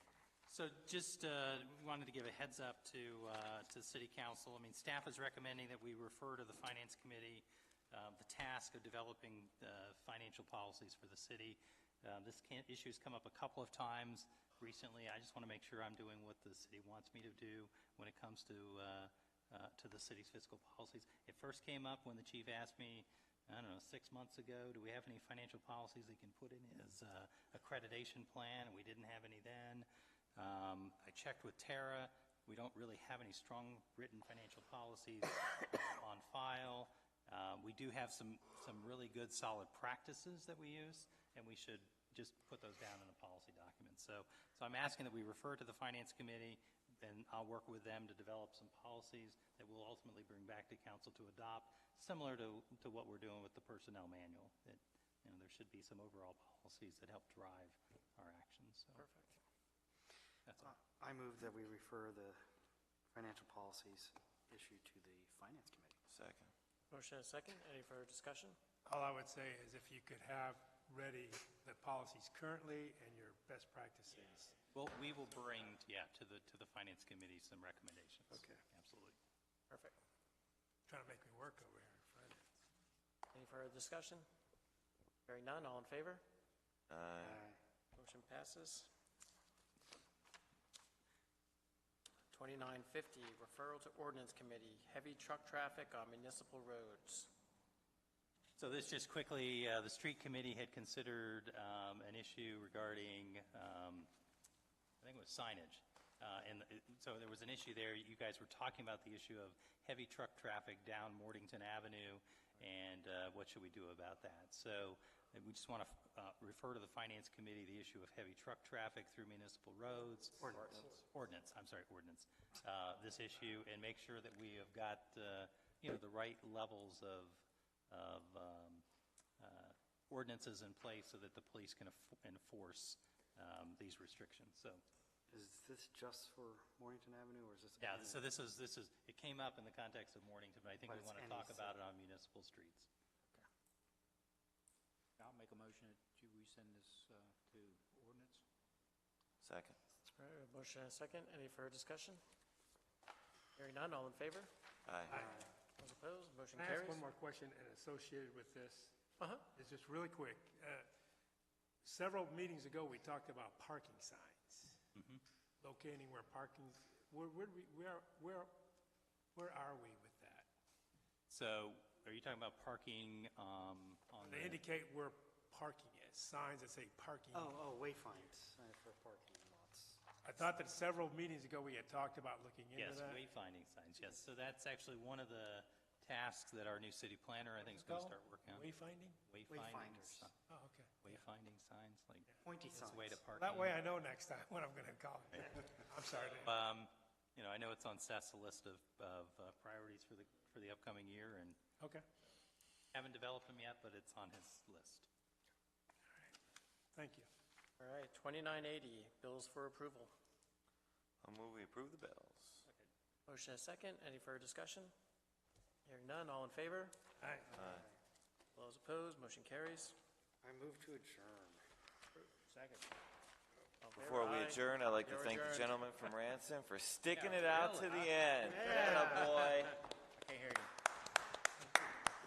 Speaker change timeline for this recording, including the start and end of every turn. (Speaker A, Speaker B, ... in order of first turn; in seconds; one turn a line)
Speaker A: 0.5-59.0
Speaker B: 59.0-59.4
Speaker C: 60.6-62.4
Speaker C: 63.1-66.0
Speaker D: 66.1-66.5
Speaker B: 66.9-68.6
Speaker E: 68.8-74.5
Speaker A: 74.7-79.2
Speaker E: 80.9-82.4
Speaker B: 83.3-84.2
Speaker B: 85.2-86.2
Speaker D: 86.9-87.4
Speaker C: 87.2-87.6
Speaker B: 88.0-88.9
Speaker B: 92.3-97.3
Speaker A: 98.6-104.1
Speaker A: 105.0-128.8
Speaker C: 120.4-121.0
Speaker A: 129.4-134.8
Speaker C: 135.3-138.3
Speaker A: 137.8-142.9
Speaker C: 140.8-141.8
Speaker F: 145.2-148.4
Speaker D: 149.4-149.8
Speaker B: 150.1-152.2
Speaker B: 153.6-154.5
Speaker D: 154.8-155.2
Speaker C: 155.1-155.5
Speaker B: 155.8-157.0
Speaker E: 156.5-159.0
Speaker B: 159.2-159.4
Speaker E: 159.5-160.9
Speaker E: 161.8-164.8
Speaker A: 164.9-165.2
Speaker E: 165.6-168.5
Speaker E: 169.3-170.5
Speaker A: 171.3-174.6
Speaker E: 174.2-177.5
Speaker C: 177.3-180.0
Speaker E: 180.2-183.2
Speaker A: 182.7-188.7
Speaker E: 187.8-189.2
Speaker A: 189.3-190.3
Speaker C: 189.5-190.3
Speaker E: 190.5-190.9
Speaker A: 191.0-193.8
Speaker C: 192.4-193.2
Speaker E: 193.3-196.5
Speaker A: 196.4-201.6
Speaker A: 202.9-205.1
Speaker E: 206.9-207.3
Speaker B: 207.8-210.1
Speaker D: 211.2-212.7
Speaker B: 213.2-214.9
Speaker B: 215.8-216.9
Speaker E: 217.2-217.6
Speaker D: 217.5-217.8
Speaker C: 217.6-217.9
Speaker B: 218.5-219.9
Speaker C: 220.4-221.6
Speaker F: 222.3-222.9
Speaker B: 223.8-225.8
Speaker D: 223.9-229.8
Speaker A: 227.1-229.2
Speaker C: 228.8-229.3
Speaker F: 230.1-230.7